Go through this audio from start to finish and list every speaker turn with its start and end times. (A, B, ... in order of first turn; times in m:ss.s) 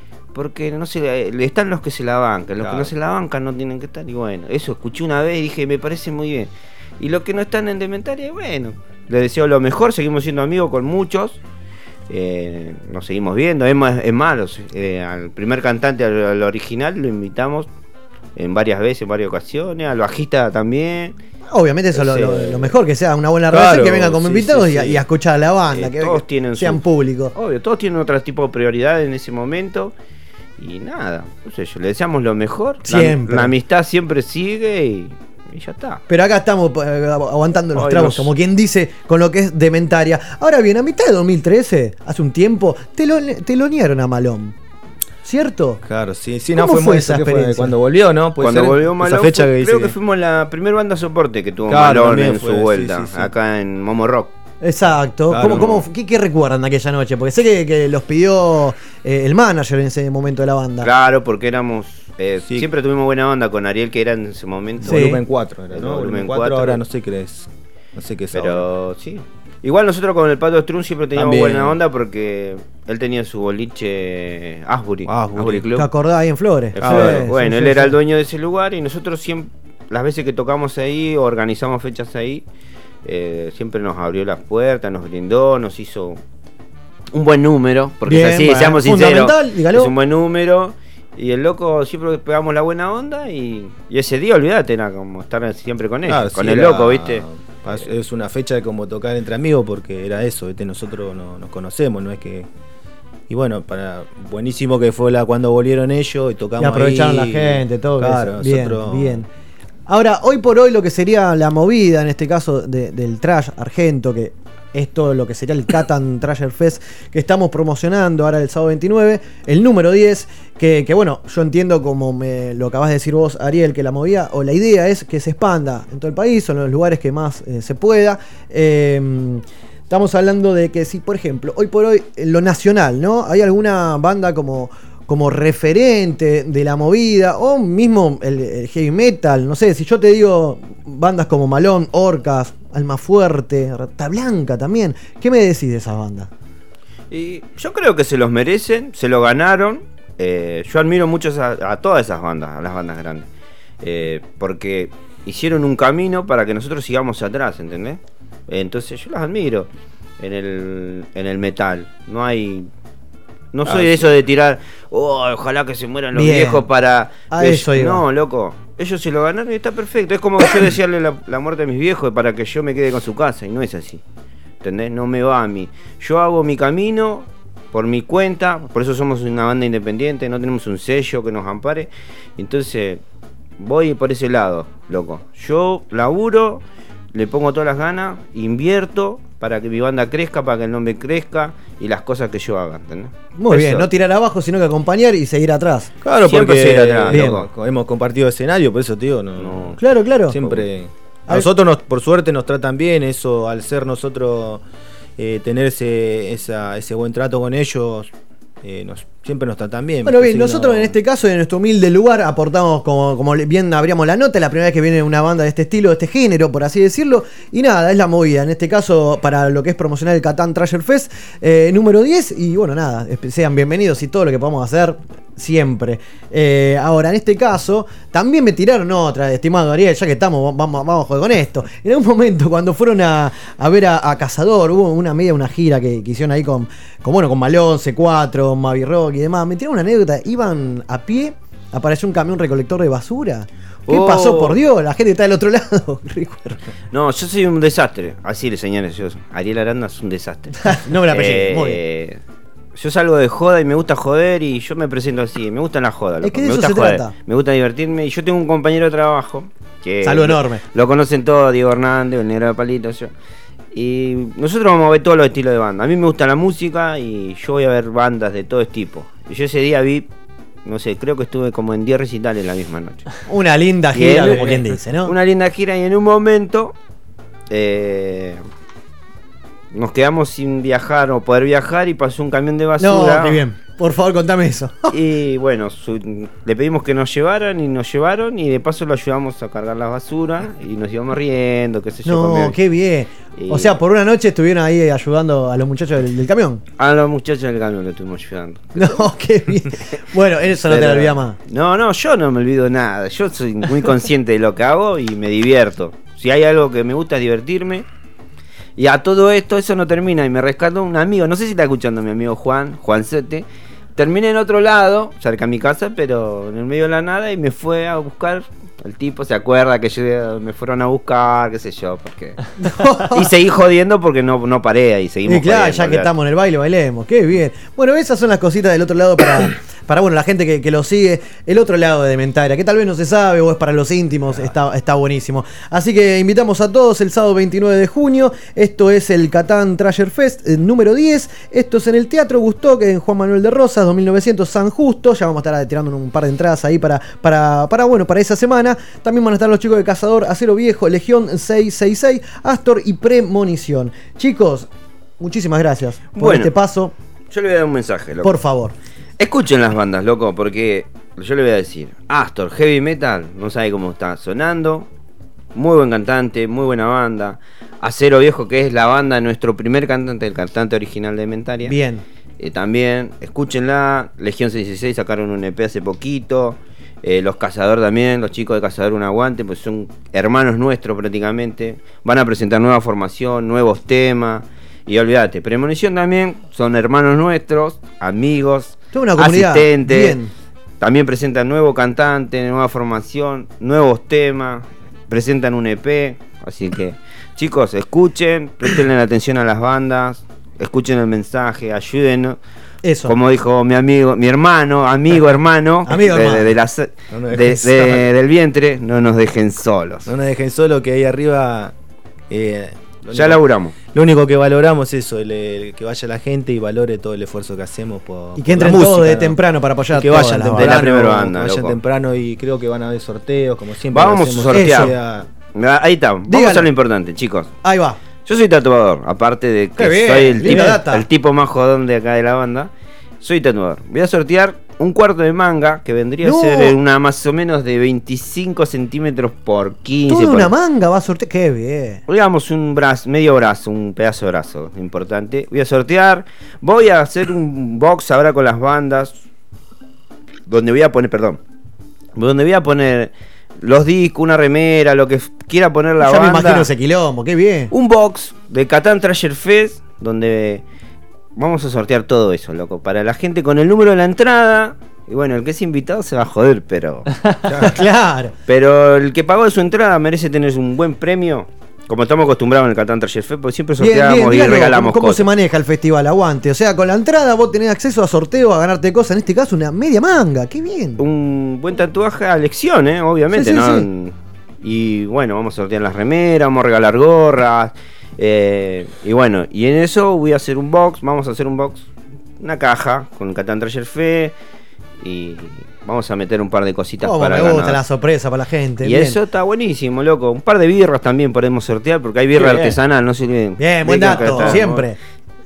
0:00.3-0:11.4 A
0:02.6-0:02.9 B
0:12.1-0:17.7 A
0:18.4-0:21.2 A
0:21.5-0:27.3 C
0:22.0-0:22.7 B
0:22.0-0:22.3 A
0:23.5-0:25.0 B
0:25.7-0:26.8 A
0:27.3-0:29.9 A
0:30.6-0:36.0 A
0:32.9-0:33.5 C
0:36.1-0:44.5 C
0:37.7-0:38.3 A
0:45.2-0:45.8 C
0:45.8-0:50.0 B
0:46.5-0:47.7 C
0:48.4-0:54.3 A
0:51.7-0:53.3 B
0:54.6-1:00.9 C
0:55.3-0:55.8 B
1:00.8-1:05.0 A
1:04.8-1:09.0 B
1:04.8-1:05.2 C
1:05.7-1:06.8 A
1:08.3-1:15.9 A
1:11.2-1:11.8 B
1:15.1-1:15.8 B
1:15.7-1:17.9 C
1:16.8-1:22.4 A
1:16.8-1:17.8 B
1:23.0-1:26.2 A
1:27.1-1:37.2 A
1:28.1-1:29.9 C
1:36.1-1:42.5 B
1:43.3-1:49.2 B
1:46.6-1:49.3 C
1:49.9-2:26.3 C
2:27.1-2:33.2 A
2:33.8-2:39.7 A
2:40.2-2:42.7 A
2:43.5-2:54.0 A
2:43.7-2:44.2 B
2:46.1-2:46.6 C
2:47.3-2:48.0 C
2:54.6-3:03.0 A
3:03.6-3:06.6 A
3:07.1-3:13.9 A
3:13.4-3:15.9 C
3:16.0-3:24.6 B
3:16.2-3:17.5 A
3:17.1-3:17.4 C
3:19.4-3:19.7 A
3:19.8-3:20.6 C
3:25.2-3:28.1 B
3:28.6-3:31.0 B
3:30.0-4:06.6 C
4:03.8-4:04.6 A
4:06.9-4:10.5 A
4:10.6-4:11.8 C
4:11.0-4:12.2 A
4:12.8-4:23.1 A
4:16.2-4:17.1 C
4:20.0-4:20.6 C
4:23.7-4:30.1 A
4:30.6-4:33.0 A
4:33.2-4:35.1 C
4:33.9-4:36.7 A
4:37.5-4:38.4 A
4:39.7-4:43.4 A
4:42.8-4:44.9 C
4:44.9-4:52.6 A
4:52.0-4:56.6 C
4:53.4-4:53.7 A
4:56.8-4:59.0 A
4:58.8-5:01.4 C
5:00.6-5:07.8 A
5:08.8-5:13.4 A
5:14.0-5:22.4 A
5:22.6-5:23.3 C
5:23.1-5:26.1 A
5:25.2-5:54.7 C
5:55.2-5:56.9 C
5:56.1-5:56.5 A
5:57.3-5:58.4 A
5:58.2-5:58.7 C
5:59.2-6:04.9 A
6:05.5-6:11.8 A
6:11.6-6:12.0 C
6:12.4-6:30.2 A
6:28.9-6:30.3 C
6:30.8-6:42.4 A
6:42.8-6:43.1 C
6:43.0-6:50.1 A
6:45.9-6:46.5 C
6:47.1-6:48.0 B
6:50.0-6:51.7 B
6:52.3-6:53.4 B
6:53.1-6:53.7 A
6:53.9-6:59.4 B
6:58.4-7:01.0 C
6:59.9-7:05.3 B
7:00.5-7:01.8 A
7:03.9-7:04.9 A
7:04.5-7:04.9 C
7:05.4-7:07.5 A
7:06.3-7:06.7 C
7:07.6-7:08.0 C
7:08.2-7:12.7 A
7:09.8-7:11.0 C
7:13.2-7:20.5 A
7:16.2-7:16.8 C
7:20.1-7:22.0 C
7:22.1-7:29.1 A
7:30.5-7:31.4 A
7:32.2-7:33.1 A
7:33.6-7:36.7 A
7:36.0-7:37.7 C
7:37.7-7:40.6 A
7:41.4-7:47.1 A
7:47.6-7:48.3 C
7:48.5-7:55.2 A
7:53.8-8:01.0 C
8:01.0-8:11.9 A
8:03.3-8:03.8 C
8:12.4-8:14.3 A
8:15.0-8:17.8 A
8:17.0-8:19.2 C
8:18.8-8:24.9 A
8:23.6-8:25.0 C
8:24.2-8:24.5 B